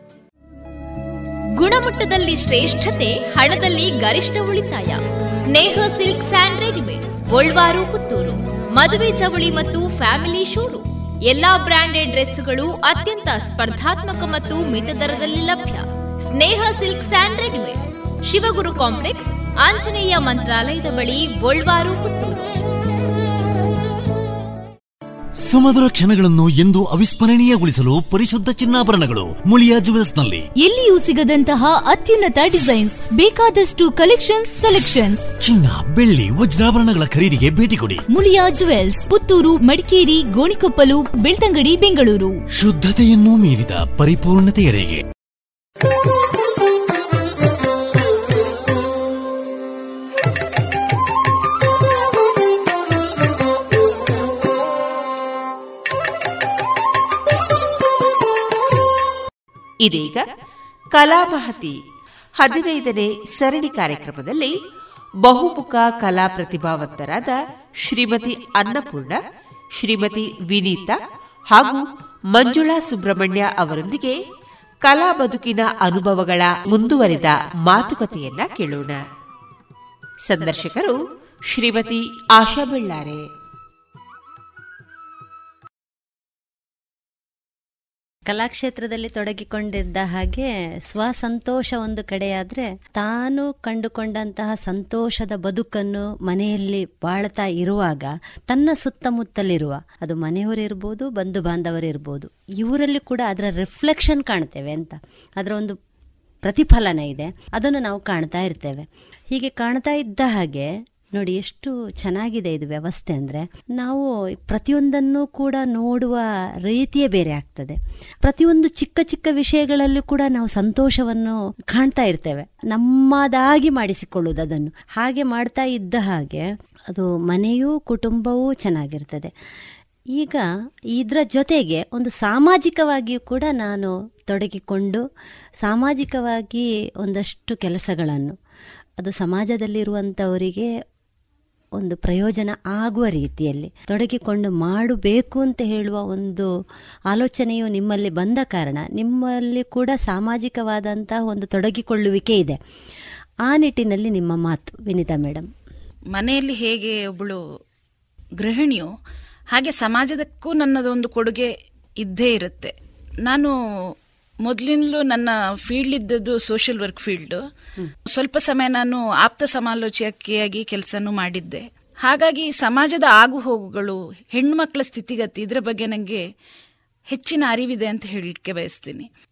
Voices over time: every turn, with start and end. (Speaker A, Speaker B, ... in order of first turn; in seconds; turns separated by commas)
Speaker A: 1.6-22.5, Speaker B: 25.5-30.4, Speaker C: 30.6-35.3, Speaker B: 35.4-38.0, Speaker C: 38.1-42.4, Speaker B: 42.6-45.0, Speaker D: 59.8-60.2, Speaker D: 60.9-61.8, Speaker D: 62.4-64.5, Speaker D: 65.2-69.2, Speaker D: 69.8-71.0, Speaker D: 71.5-74.2, Speaker D: 74.8-79.0, Speaker D: 80.3-81.0, Speaker D: 81.5-83.2, Speaker E: 88.3-105.8, Speaker E: 106.4-129.3, Speaker E: 130.2-130.4, Speaker E: 130.9-135.0, Speaker E: 135.6-138.3, Speaker E: 139.0-140.7, Speaker E: 141.8-146.5, Speaker E: 147.1-152.6, Speaker E: 153.5-155.5, Speaker F: 156.1-157.4, Speaker F: 158.4-158.9, Speaker F: 159.5-162.7, Speaker F: 163.2-163.5, Speaker F: 164.4-167.4, Speaker F: 168.1-176.2, Speaker F: 177.1-179.1